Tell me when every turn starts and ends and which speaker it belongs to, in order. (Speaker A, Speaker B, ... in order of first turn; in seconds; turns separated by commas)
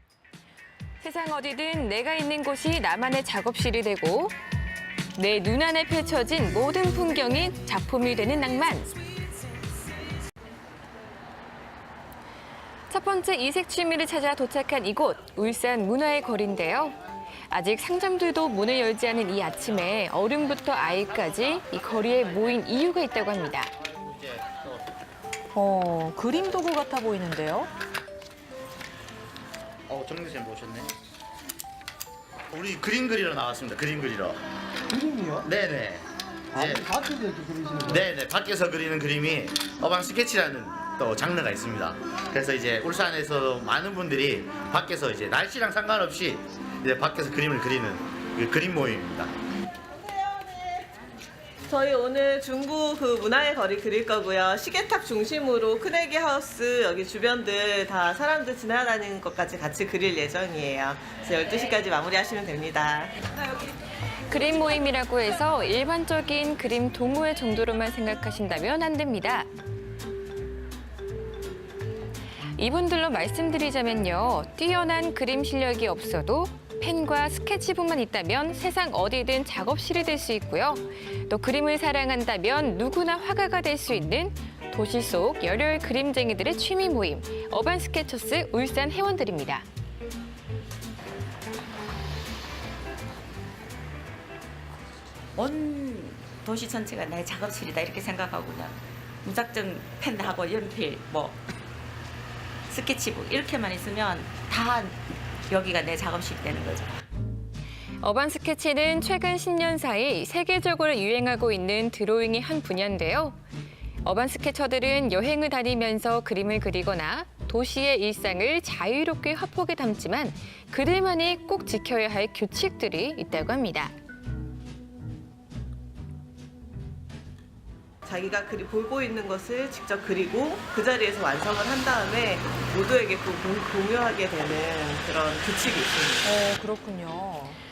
Speaker A: 1.0-4.3, Speaker A: 5.2-9.0, Speaker A: 12.9-17.0, Speaker A: 17.5-23.7, Speaker B: 23.9-24.9, Speaker C: 25.5-27.7, Speaker B: 29.9-30.9, Speaker B: 32.5-34.4, Speaker D: 35.0-35.4, Speaker B: 35.4-36.9, Speaker D: 36.6-38.0, Speaker B: 37.8-49.3, Speaker E: 50.1-50.8, Speaker E: 51.7-63.2, Speaker A: 64.3-69.5, Speaker A: 72.5-89.7, Speaker F: 95.4-101.4, Speaker F: 102.7-105.0, Speaker F: 105.5-106.9, Speaker A: 108.0-113.4, Speaker A: 114.0-123.9, Speaker E: 128.1-136.3, Speaker C: 136.2-137.6